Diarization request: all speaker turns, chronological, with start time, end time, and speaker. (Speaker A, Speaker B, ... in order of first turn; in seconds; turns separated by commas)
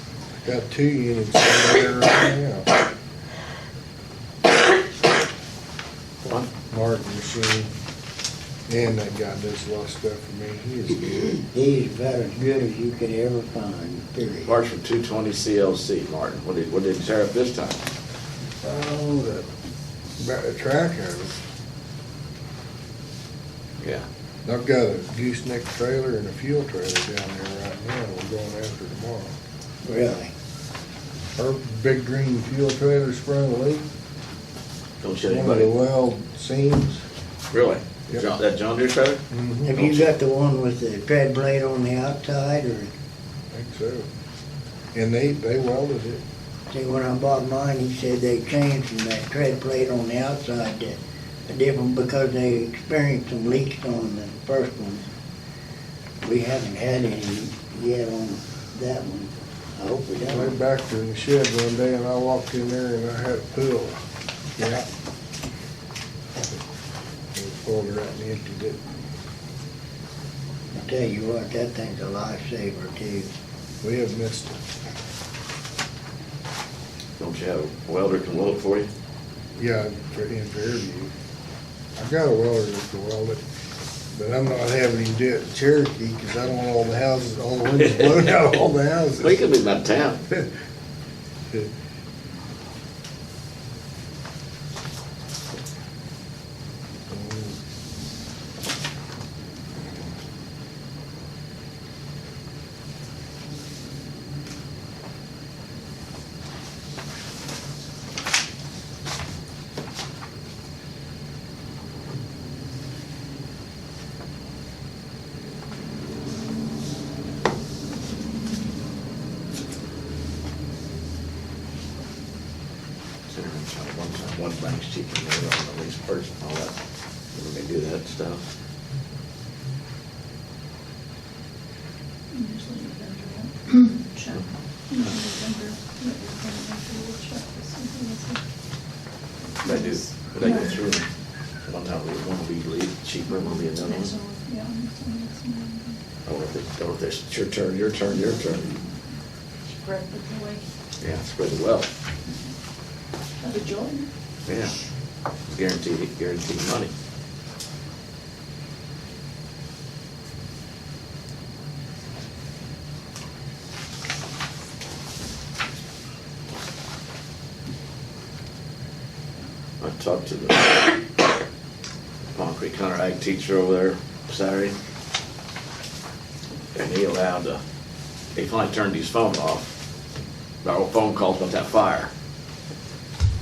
Speaker A: 0.4-2.7, Speaker A: 6.7-7.7, Speaker A: 8.7-11.4, Speaker B: 11.4-14.5, Speaker C: 14.4-17.8, Speaker A: 18.6-19.5, Speaker A: 20.2-21.4, Speaker A: 24.4-29.3, Speaker B: 29.8-30.3, Speaker A: 31.4-33.8, Speaker C: 35.0-35.7, Speaker A: 35.3-37.0, Speaker C: 37.5-39.2, Speaker A: 39.3-39.7, Speaker B: 39.6-42.9, Speaker C: 39.7-40.1, Speaker A: 43.5-44.0, Speaker A: 44.9-46.2, Speaker B: 46.7-55.0, Speaker B: 56.2-60.5, Speaker A: 60.2-64.0, Speaker A: 64.6-64.9, Speaker A: 67.3-68.8, Speaker B: 70.7-73.3, Speaker A: 73.8-74.6, Speaker C: 77.2-78.9, Speaker A: 79.6-81.1, Speaker A: 82.0-83.4, Speaker A: 84.1-89.4, Speaker C: 87.8-88.3, Speaker C: 89.2-90.2, Speaker A: 97.1-97.5, Speaker C: 123.3-126.7, Speaker C: 127.3-128.4, Speaker D: 132.3-138.4, Speaker C: 139.6-141.1, Speaker D: 139.7-140.9, Speaker C: 141.7-144.2, Speaker D: 143.3-146.0, Speaker C: 146.3-148.7, Speaker D: 149.9-150.6, Speaker C: 151.0-151.9, Speaker D: 153.4-154.1, Speaker C: 154.5-154.8, Speaker C: 155.5-156.9, Speaker C: 169.8-171.0, Speaker C: 172.4-174.7, Speaker C: 176.8-177.6, Speaker C: 178.4-179.7, Speaker C: 180.6-182.1